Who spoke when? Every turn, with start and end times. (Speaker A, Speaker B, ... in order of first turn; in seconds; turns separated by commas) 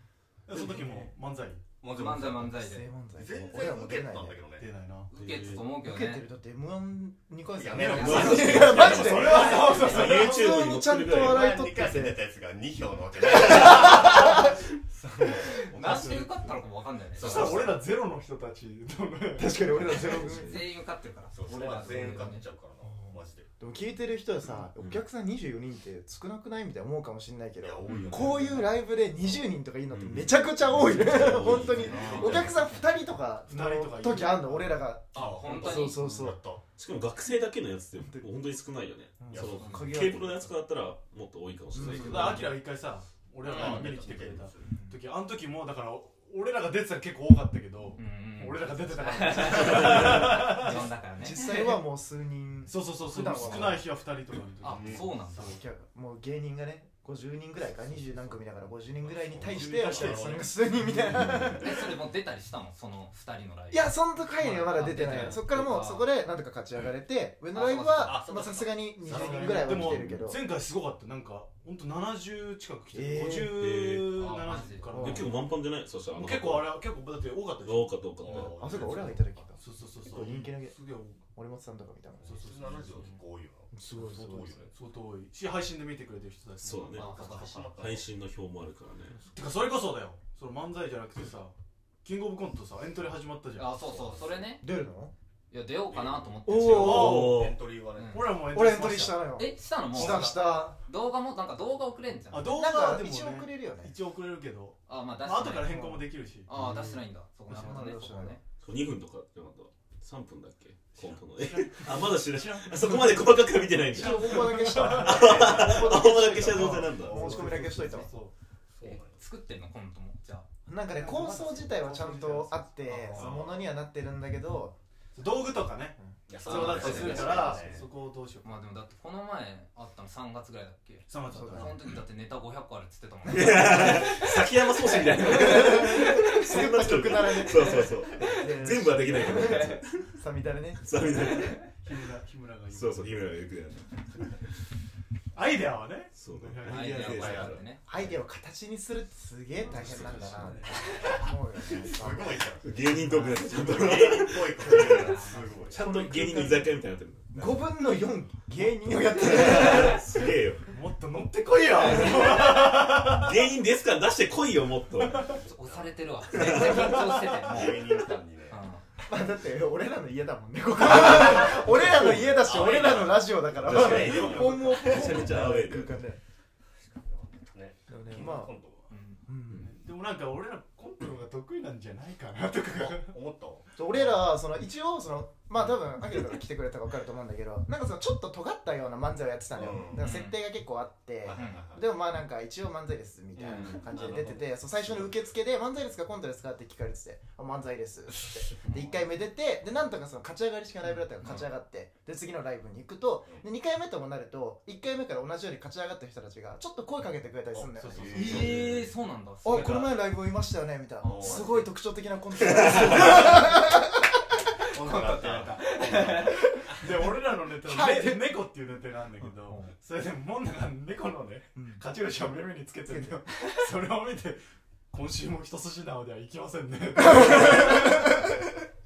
Speaker A: 0.5-1.6, Speaker B: 0.8-1.1, Speaker C: 1.8-2.5, Speaker D: 1.9-2.9, Speaker B: 2.3-4.4, Speaker C: 3.2-4.7, Speaker A: 4.5-5.1, Speaker D: 5.1-6.2, Speaker E: 5.1-5.7, Speaker B: 5.8-12.2, Speaker C: 7.5-10.1, Speaker A: 7.7-10.5, Speaker D: 7.8-9.9, Speaker E: 8.0-11.4, Speaker C: 11.0-16.2, Speaker B: 13.3-14.5, Speaker D: 15.7-17.6, Speaker A: 15.7-16.6, Speaker C: 17.1-17.8, Speaker A: 17.2-20.0, Speaker B: 19.4-20.6, Speaker E: 20.1-20.7, Speaker D: 20.2-22.4, Speaker C: 21.3-23.5, Speaker B: 22.0-22.2, Speaker B: 22.8-36.4, Speaker E: 24.7-25.0, Speaker C: 27.6-29.4, Speaker E: 27.9-28.4, Speaker E: 29.9-32.5, Speaker C: 31.2-32.8, Speaker A: 33.5-34.8, Speaker D: 35.1-36.0, Speaker C: 35.1-36.6, Speaker E: 36.8-42.6, Speaker B: 38.0-38.3, Speaker A: 39.2-39.5, Speaker C: 39.3-39.8, Speaker B: 39.3-40.6, Speaker D: 39.6-39.9, Speaker B: 41.7-42.4, Speaker A: 41.8-50.9, Speaker C: 43.4-44.7, Speaker D: 48.0-51.8, Speaker B: 50.0-53.9, Speaker A: 52.6-55.6, Speaker D: 54.6-55.5, Speaker C: 54.6-55.1, Speaker B: 55.3-61.9, Speaker C: 59.0-60.5, Speaker A: 59.4-60.5, Speaker E: 61.0-61.6, Speaker D: 61.6-66.0, Speaker B: 63.7-70.4, Speaker D: 67.5-68.3, Speaker C: 68.0-70.0, Speaker A: 69.0-75.4, Speaker B: 72.9-73.7, Speaker E: 73.5-74.2, Speaker D: 74.1-75.1, Speaker B: 74.9-75.3, Speaker E: 74.9-76.8, Speaker A: 76.1-78.1, Speaker E: 77.6-78.9, Speaker C: 78.2-79.4, Speaker B: 78.3-82.5, Speaker A: 79.6-81.2, Speaker C: 80.0-80.3, Speaker A: 82.2-83.2, Speaker C: 82.3-84.7, Speaker B: 83.7-84.6, Speaker A: 84.7-87.0, Speaker E: 86.6-87.1, Speaker D: 86.9-87.7, Speaker C: 87.0-88.1, Speaker E: 87.8-89.2, Speaker A: 89.3-93.8, Speaker D: 93.5-94.6, Speaker C: 93.8-94.4, Speaker B: 94.6-95.1, Speaker D: 95.5-97.3, Speaker C: 95.9-98.6, Speaker B: 96.4-97.3, Speaker E: 96.6-97.5, Speaker A: 96.7-97.4, Speaker D: 97.9-98.3, Speaker A: 98.0-99.3, Speaker B: 98.5-100.8, Speaker D: 99.3-102.6, Speaker A: 99.9-100.3, Speaker A: 102.3-106.5, Speaker B: 102.4-103.9, Speaker D: 104.9-105.8, Speaker B: 105.7-106.9, Speaker D: 106.5-108.4, Speaker B: 107.5-108.4, Speaker E: 108.6-117.5, Speaker A: 111.0-118.3, Speaker B: 113.9-118.1, Speaker C: 115.1-116.0, Speaker C: 118.7-119.2, Speaker D: 118.8-120.5, Speaker B: 120.7-124.8, Speaker A: 120.9-123.3, Speaker C: 123.1-123.6, Speaker A: 125.1-128.5, Speaker C: 126.3-127.9, Speaker D: 126.4-127.6, Speaker D: 128.4-136.4, Speaker A: 131.1-131.8, Speaker B: 131.3-131.8, Speaker E: 133.3-140.1, Speaker B: 135.4-140.9, Speaker D: 137.4-138.3, Speaker E: 140.8-141.7, Speaker A: 141.0-143.4, Speaker E: 142.7-144.2, Speaker A: 145.3-147.6, Speaker E: 146.1-147.6, Speaker D: 146.6-147.8, Speaker C: 147.0-148.1, Speaker B: 147.8-152.4, Speaker A: 149.6-151.2, Speaker E: 149.7-150.5, Speaker D: 150.8-151.2, Speaker C: 151.6-155.8, Speaker E: 152.6-155.1, Speaker A: 153.0-153.2, Speaker D: 154.7-155.8, Speaker A: 155.1-155.7, Speaker E: 155.7-157.8, Speaker B: 155.7-156.8, Speaker B: 157.3-160.1, Speaker E: 159.2-160.7, Speaker A: 160.7-163.3, Speaker D: 161.7-162.5, Speaker E: 162.1-165.4, Speaker D: 165.3-167.9, Speaker C: 165.6-166.0, Speaker E: 166.3-167.7, Speaker A: 166.6-167.6, Speaker C: 167.4-168.6, Speaker D: 168.5-168.8, Speaker B: 169.1-176.2, Speaker C: 170.9-171.3, Speaker E: 171.7-172.4, Speaker C: 172.2-175.3, Speaker E: 173.6-176.0, Speaker A: 174.3-174.7, Speaker C: 176.8-178.8, Speaker B: 177.9-178.6, Speaker D: 178.9-179.2, Speaker B: 179.3-179.7, Speaker A: 179.6-183.2, Speaker C: 182.7-184.3, Speaker B: 183.8-208.6, Speaker C: 189.5-190.1, Speaker D: 190.0-190.4, Speaker C: 191.2-191.8, Speaker D: 191.3-191.7, Speaker C: 193.4-195.2, Speaker D: 193.5-193.8, Speaker D: 198.7-199.0, Speaker D: 200.8-201.4, Speaker C: 207.5-208.6, Speaker A: 207.8-208.5, Speaker D: 208.1-209.9, Speaker E: 208.3-208.8, Speaker B: 209.4-213.9, Speaker A: 209.6-209.8, Speaker D: 211.0-211.7, Speaker C: 211.0-211.6, Speaker E: 212.5-212.8, Speaker A: 212.9-213.6, Speaker C: 214.7-216.7, Speaker A: 214.8-228.1, Speaker D: 215.0-216.3, Speaker B: 217.6-218.4, Speaker B: 221.5-221.8, Speaker B: 222.9-223.2, Speaker B: 226.9-228.3